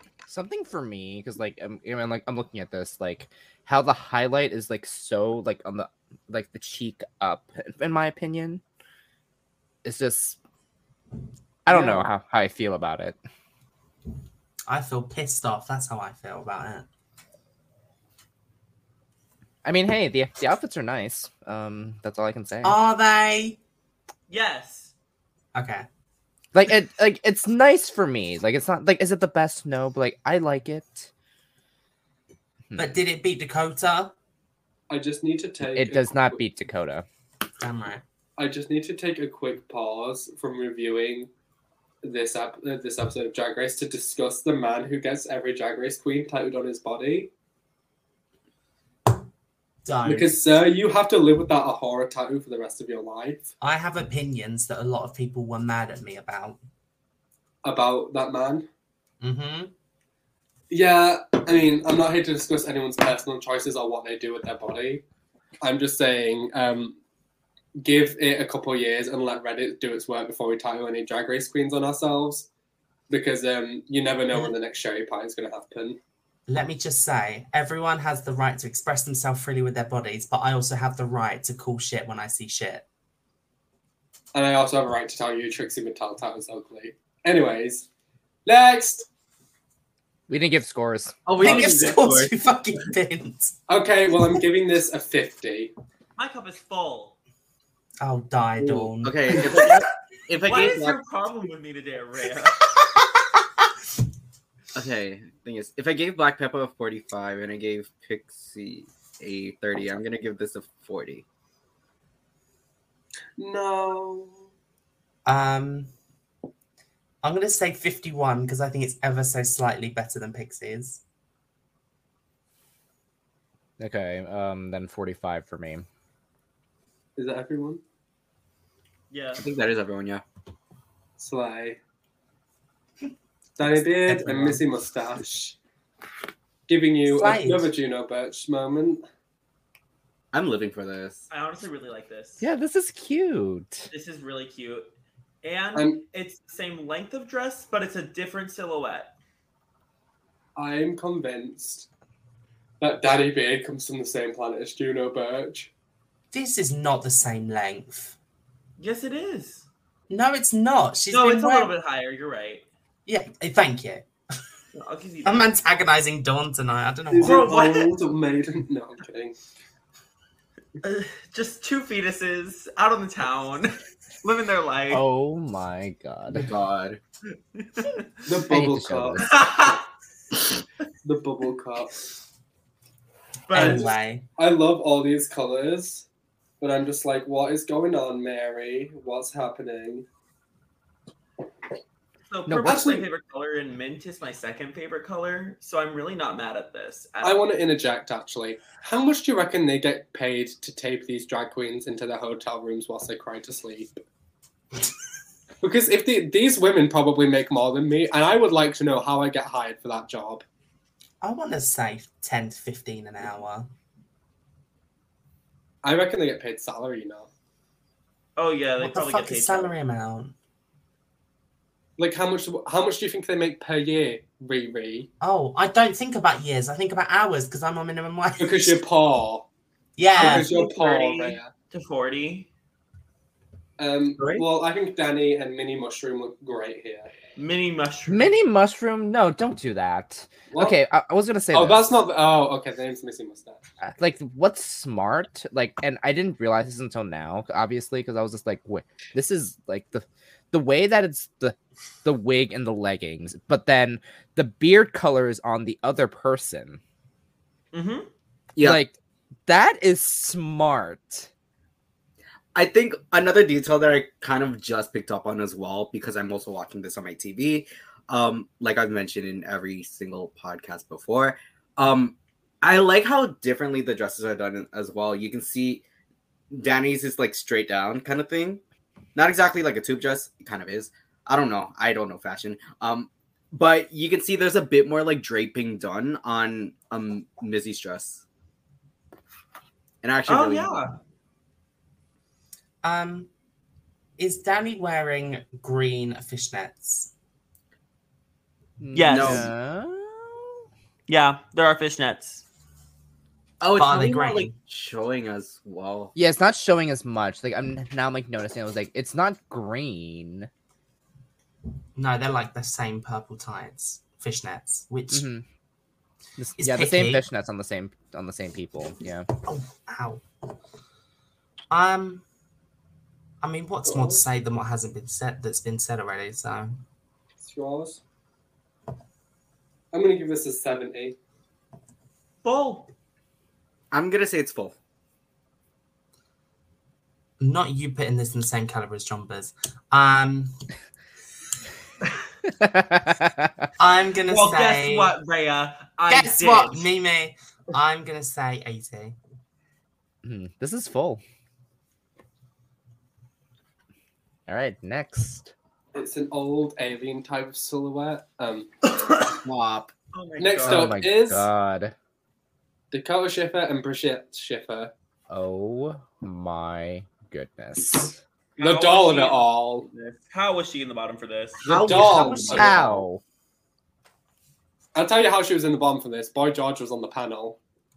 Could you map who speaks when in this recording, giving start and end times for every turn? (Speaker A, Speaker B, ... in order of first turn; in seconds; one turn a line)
Speaker A: 0.3-8.6
Speaker A: 9.8-10.4
Speaker A: 11.7-13.2
Speaker B: 11.7-12.1
Speaker C: 14.7-16.9
Speaker A: 19.6-22.8
Speaker C: 22.6-23.6
Speaker D: 24.3-24.9
Speaker C: 25.5-25.9
Speaker A: 26.5-31.1
Speaker A: 32.7-33.0
Speaker C: 32.8-34.1
Speaker B: 34.9-36.4
Speaker A: 35.7-37.0
Speaker C: 37.6-38.0
Speaker B: 38.4-41.3
Speaker B: 42.0-47.3
Speaker C: 49.8-50.4
Speaker B: 50.0-53.5
Speaker C: 53.6-56.6
Speaker B: 57.6-58.7
Speaker C: 59.2-59.7
Speaker B: 60.7-65.0
Speaker B: 65.6-67.0
Speaker B: 67.8-72.5
Speaker B: 73.1-76.0
Speaker C: 76.5-82.8
Speaker B: 84.3-87.8
Speaker B: 88.5-89.0
Speaker A: 90.3-91.2
Speaker E: 91.2-92.3
Speaker C: 91.4-93.6
Speaker B: 91.4-92.0
Speaker B: 93.7-95.7
Speaker D: 96.2-97.2
Speaker C: 98.0-99.7
Speaker E: 98.6-101.0
Speaker D: 100.4-102.6
Speaker E: 104.7-111.2
Speaker B: 113.4-114.5
Speaker C: 115.2-115.9
Speaker C: 117.2-121.0
Speaker A: 123.8-125.8
Speaker B: 127.2-127.8
Speaker D: 129.1-129.4
Speaker E: 129.4-130.2
Speaker B: 131.2-131.8
Speaker B: 133.6-135.6
Speaker C: 133.6-134.7
Speaker B: 136.7-139.0
Speaker C: 137.1-137.7
Speaker E: 140.3-141.3
Speaker D: 141.3-142.4
Speaker A: 142.4-143.9
Speaker D: 143.9-144.9
Speaker D: 145.4-149.1
Speaker B: 145.7-146.0
Speaker B: 150.6-151.9
Speaker B: 152.8-155.7
Speaker C: 156.3-158.1
Speaker D: 158.8-159.7
Speaker C: 160.1-161.7
Speaker D: 161.1-162.7
Speaker C: 163.1-164.1
Speaker D: 164.7-165.5
Speaker C: 165.2-167.5
Speaker B: 167.1-169.3
Speaker D: 167.2-168.0
Speaker D: 170.8-175.0
Speaker A: 174.9-176.5
Speaker E: 176.3-177.0
Speaker D: 177.5-178.1
Speaker B: 178.2-179.4
Speaker A: 178.5-179.3
Speaker D: 179.2-179.8
Speaker B: 181.0-181.9
Speaker D: 183.5-183.9
Speaker C: 183.5-184.3
Speaker B: 183.5-186.1
Speaker B: 186.6-190.1
Speaker D: 192.3-197.4
Speaker A: 192.5-192.8
Speaker B: 192.6-193.1
Speaker B: 197.2-204.0
Speaker B: 205.6-210.4
Speaker C: 211.2-213.7
Speaker B: 215.8-217.3
Speaker D: 218.4-219.7
Speaker C: 218.8-220.3
Speaker B: 222.0-225.1
Speaker C: 225.2-228.8
Speaker B: 228.4-229.5
Speaker C: 230.0-230.5
Speaker B: 230.2-231.5
Speaker D: 230.2-232.5
Speaker B: 233.8-237.1
Speaker E: 234.2-234.4
Speaker D: 237.3-238.3
Speaker A: 238.1-241.9
Speaker B: 240.5-240.8
Speaker B: 241.5-243.6
Speaker A: 243.8-256.8
Speaker D: 257.7-258.1
Speaker E: 258.6-258.8
Speaker A: 258.6-258.9
Speaker A: 259.5-261.3
Speaker E: 262.5-275.8
Speaker E: 276.5-278.6
Speaker E: 279.1-288.2
Speaker E: 290.0-290.8
Speaker D: 290.3-290.9
Speaker C: 292.8-293.3
Speaker C: 294.2-297.1
Speaker A: 298.8-300.5
Speaker D: 298.9-299.5
Speaker E: 299.1-299.5
Speaker D: 301.1-302.4
Speaker E: 303.6-306.1
Speaker C: 303.8-304.5
Speaker A: 306.1-310.5
Speaker C: 311.9-315.3
Speaker A: 315.1-315.4
Speaker A: 316.4-319.3
Speaker C: 316.6-317.2
Speaker C: 319.4-320.2
Speaker C: 321.7-322.2
Speaker C: 323.4-326.8
Speaker B: 323.9-324.2
Speaker B: 327.4-328.0
Speaker B: 329.9-331.2
Speaker D: 332.4-332.9
Speaker E: 333.9-334.8
Speaker C: 337.4-340.5
Speaker A: 342.5-343.7
Speaker C: 343.8-345.1
Speaker D: 344.3-346.9
Speaker C: 346.1-349.1
Speaker A: 350.2-351.2
Speaker A: 354.5-355.5
Speaker B: 355.9-358.7
Speaker E: 359.4-359.9
Speaker D: 360.1-360.9
Speaker B: 360.4-361.5
Speaker A: 360.6-361.9
Speaker B: 362.9-364.9
Speaker A: 365.3-368.2
Speaker D: 368.6-371.7
Speaker B: 368.6-369.9
Speaker E: 371.6-373.0
Speaker B: 371.6-372.9
Speaker C: 372.2-372.6
Speaker A: 372.4-373.2
Speaker B: 374.9-377.6